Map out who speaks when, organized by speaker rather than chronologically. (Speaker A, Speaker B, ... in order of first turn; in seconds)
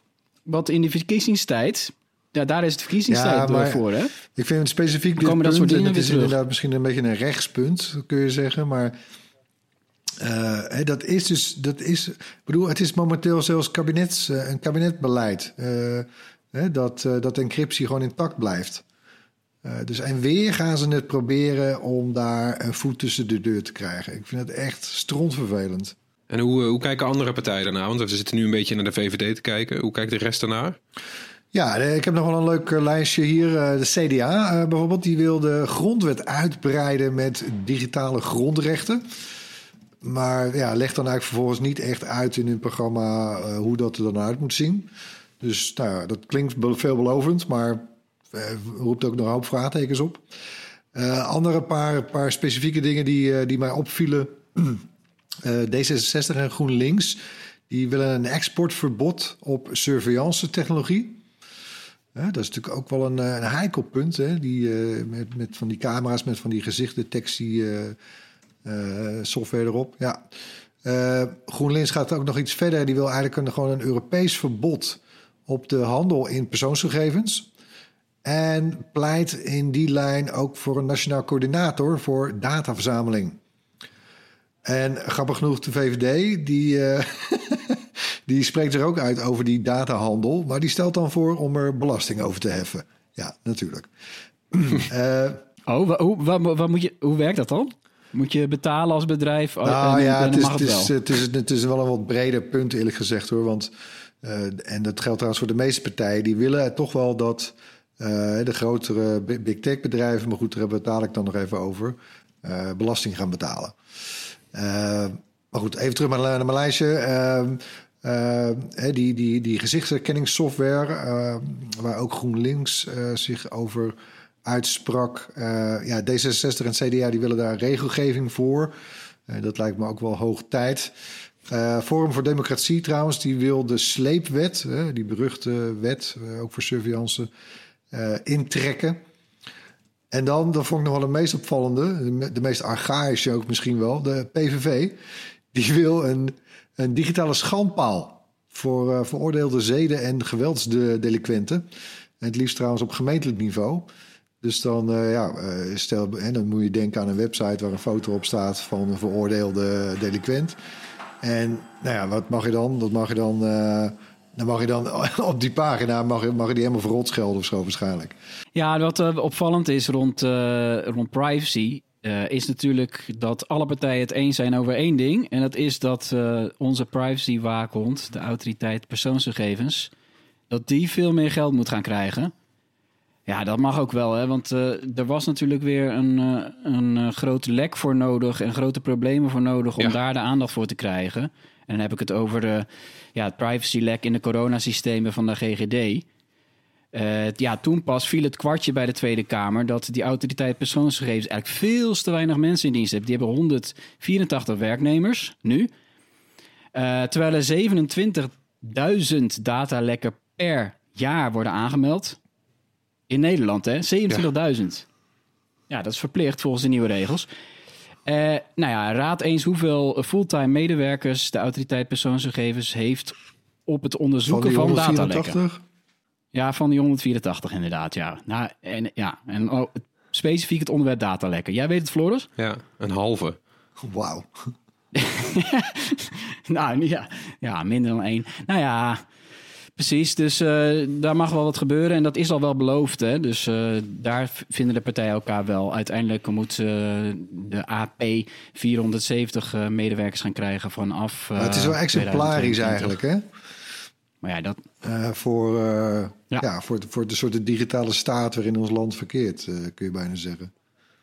Speaker A: 0.5-4.1, 5.2-6.4, 95.7-100.9, 168.5-179.9, 180.5-182.3, 183.3-196.0, 196.9-205.7, 206.7-212.2, 213.1-214.8, 215.7-217.3, 218.1-225.4, 226.3-232.3, 234.9-239.0, 239.8-252.9, 254.2-254.6
Speaker B: 3.1-8.9, 10.2-18.8, 19.6-25.9, 31.5-39.0, 40.0-44.9, 45.4-50.2, 50.9-54.8, 55.4-61.2, 62.1-68.0, 68.6-70.3, 70.8-77.5, 78.2-83.4, 84.6-93.9, 94.5-95.4, 99.6-113.8, 114.5-128.8, 129.3-130.9, 131.4-137.3, 137.9-139.0, 140.1-145.0, 145.5-151.7, 152.2-153.9, 154.4-160.6, 161.2-168.2, 224.3-225.6, 233.8-234.3, 251.3-253.2, 254.8-260.5
Speaker C: 26.3-30.8, 232.4-233.4